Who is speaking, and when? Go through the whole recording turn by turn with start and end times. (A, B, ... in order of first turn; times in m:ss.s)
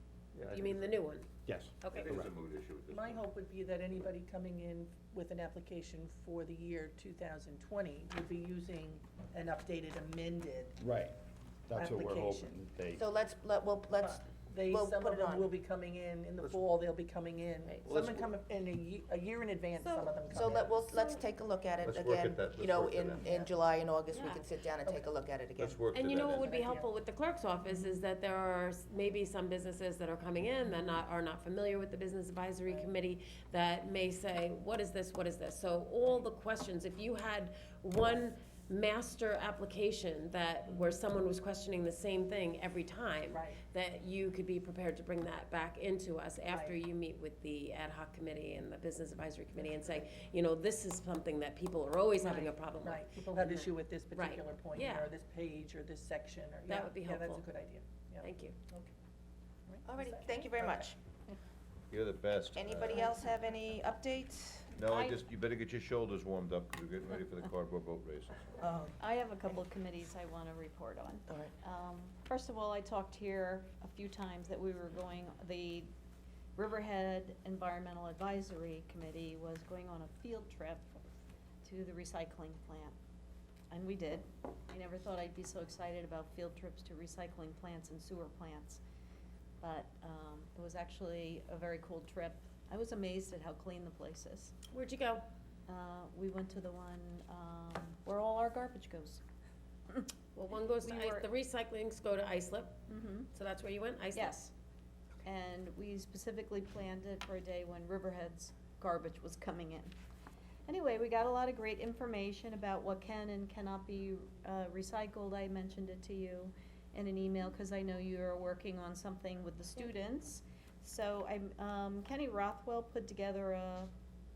0:00.3-0:01.0 A
0:00.5-0:01.3 B
0:01.4-0:02.3 C
0:01.8-0:02.1 B
0:01.8-0:03.3 A
0:02.9-0:10.8 D
0:10.8-0:13.0 C
0:11.7-0:12.6 D
0:13.0-0:15.6 E
0:14.0-0:20.8 D
0:16.4-0:16.7 A
0:17.6-0:18.0 B
0:17.8-0:18.3 A
0:19.8-0:25.8 E
0:20.8-0:21.2 B
0:21.8-0:23.3 A
0:24.1-0:24.5 B
0:25.6-0:26.4 A
0:25.9-0:55.1 B
0:26.4-0:26.9 D
0:43.3-0:43.6 D
0:46.5-0:46.8 D
0:52.2-0:58.9 D
0:56.6-0:57.4 B
0:58.2-0:58.6 B
0:59.7-1:00.9 D
0:59.8-1:01.0 E
1:01.9-1:03.2 A
1:02.5-1:04.7 E
1:04.7-1:08.6 A
1:04.9-1:05.2 F
1:08.6-1:09.0 E
1:09.0-1:15.9 F
1:16.6-1:20.9 F
1:21.6-1:23.0 F
1:23.7-1:28.8 F
1:29.6-1:34.5 F
1:34.7-1:35.2 B
1:35.7-1:39.2 F
1:40.3-1:42.8 B
1:40.8-1:41.3 F
1:42.9-1:43.3 F
1:43.3-1:44.4 B
1:44.1-1:44.5 F
1:45.2-1:49.9 F
1:50.7-2:03.9 F